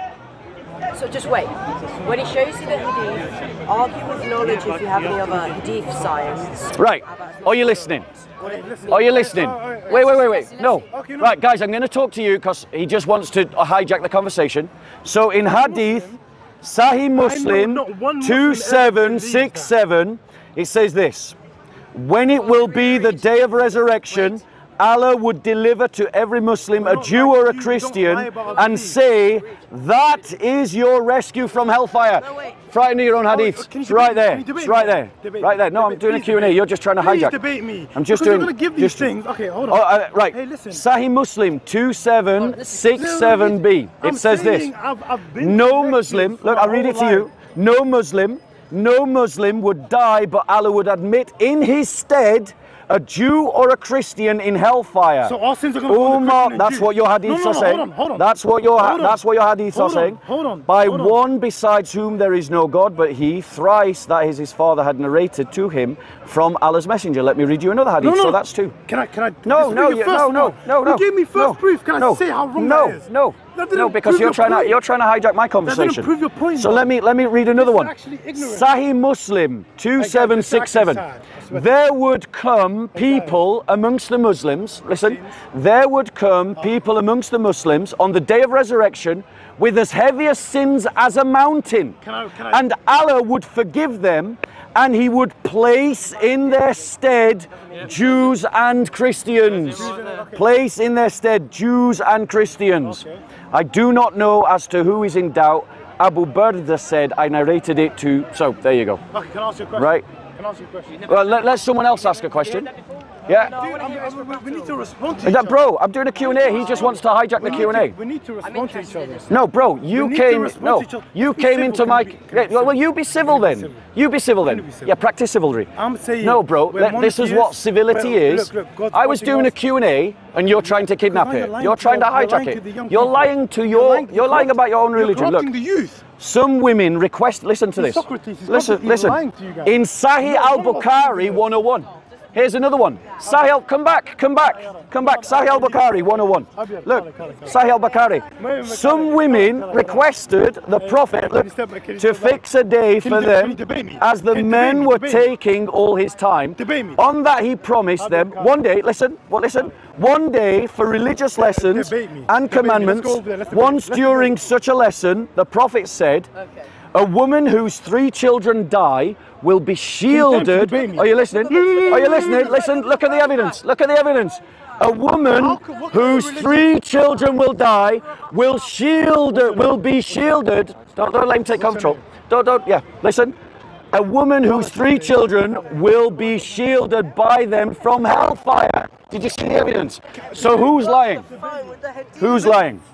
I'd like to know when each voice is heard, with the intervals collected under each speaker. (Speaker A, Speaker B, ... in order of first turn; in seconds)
Speaker A: 0.9-6.7, 113.4-113.9, 118.6-119.1, 171.2-172.0
Speaker B: 4.6-5.3, 8.4-10.1, 10.8-11.4, 15.4-16.1, 17.1-19.7, 22.8-23.2, 26.8-29.0, 33.3-40.8, 42.8-47.3, 55.2-59.2, 59.7-61.2, 68.0-74.8, 75.6-76.9, 77.5-78.7, 80.0-81.7, 82.9-83.4, 84.9-85.3, 92.0-92.7, 99.7-100.4, 102.8-103.2, 109.1-111.1, 113.5-115.6, 117.4-119.3, 119.9-123.8, 124.4-124.9, 125.8-129.6, 130.6-136.1, 137.8-141.5, 143.2-143.6, 144.4-146.0, 146.5-147.6, 148.3-150.1, 150.8-152.4, 153.0-155.3, 156.6-157.0, 158.0-158.6, 161.3-164.4, 170.1-172.7, 175.3-176.8, 179.3-180.2, 181.5-182.0, 184.5-185.3, 190.3-192.7
Speaker C: 6.7-8.1, 8.9-21.4, 21.9-37.4, 37.9-39.1, 39.7-44.7, 45.4-55.4, 55.9-68.8, 69.4-92.0, 92.5-109.0, 109.8-110.0, 111.0-112.7, 113.2-113.6, 115.2-118.0, 119.3-135.5, 136.2-166.3, 166.9-183.3, 183.9-191.3, 192.1-192.8